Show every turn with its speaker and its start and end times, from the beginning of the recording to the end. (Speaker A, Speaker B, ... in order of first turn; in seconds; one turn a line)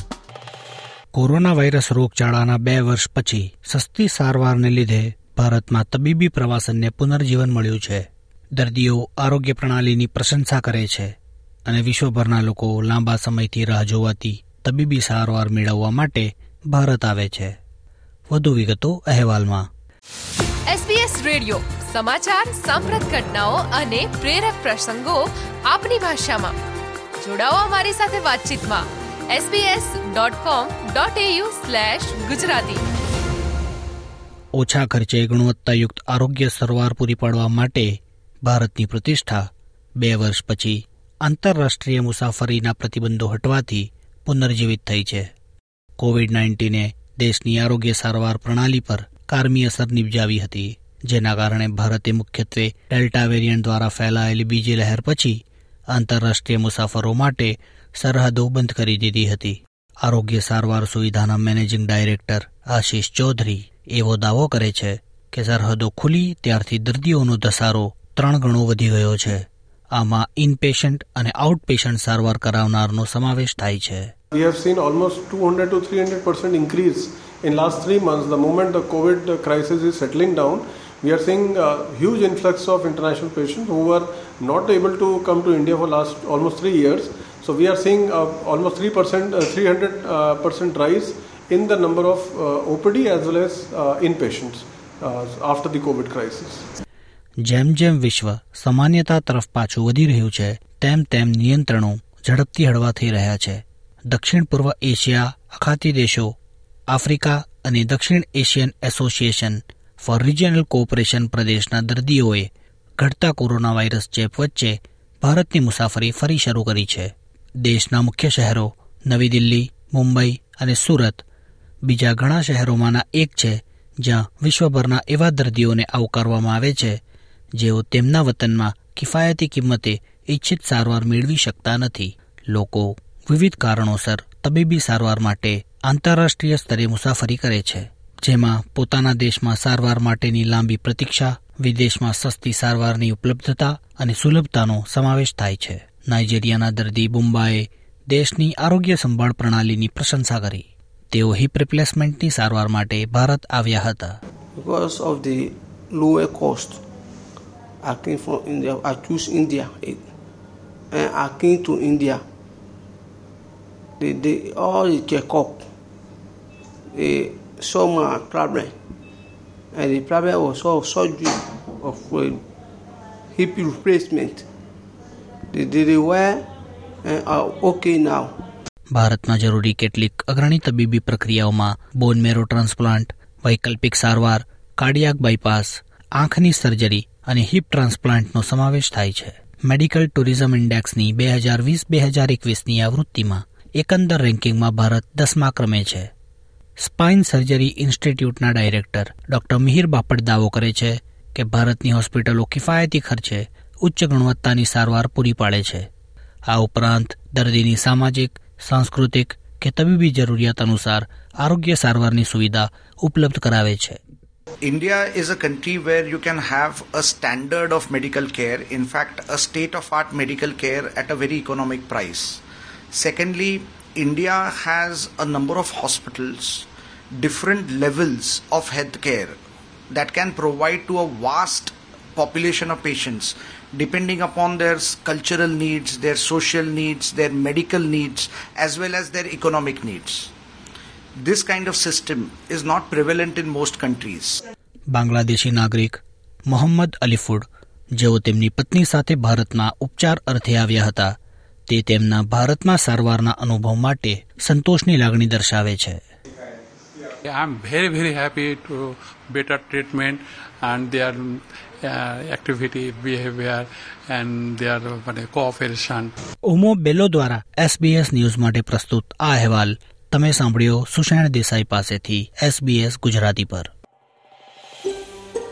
Speaker A: 1.1-11.1
Speaker A: 11.7-17.5
Speaker A: 18.3-19.6
Speaker B: 20.7-26.5
Speaker B: 27.2-32.8
Speaker A: 34.6-39.4
Speaker A: 40.0-45.3
Speaker A: 46.0-55.4
Speaker A: 55.9-74.1
Speaker C: 74.3-96.6
Speaker A: 97.4-106.3
Speaker A: 106.9-112.5
Speaker A: 113.0-117.1
Speaker A: 117.6-121.2
Speaker A: 121.8-127.0
Speaker A: 127.6-154.2
Speaker D: 154.6-156.8
Speaker D: 157.8-160.0
Speaker D: 160.9-162.2
Speaker D: 164.0-165.7
Speaker D: 166.9-168.7
Speaker D: 169.7-172.4
Speaker D: 173.3-174.4
Speaker D: 175.5-176.4
Speaker D: 177.0-178.3
Speaker A: 178.9-196.1
Speaker A: 196.8-205.8
Speaker A: 206.5-214.0
Speaker E: 214.6-222.4
Speaker E: 222.9-229.4
Speaker E: 229.9-240.3
Speaker E: 241.2-244.4
Speaker A: 244.9-247.4
Speaker A: 248.0-251.1
Speaker A: 251.7-256.0
Speaker F: 257.2-266.1
Speaker A: 266.4-273.7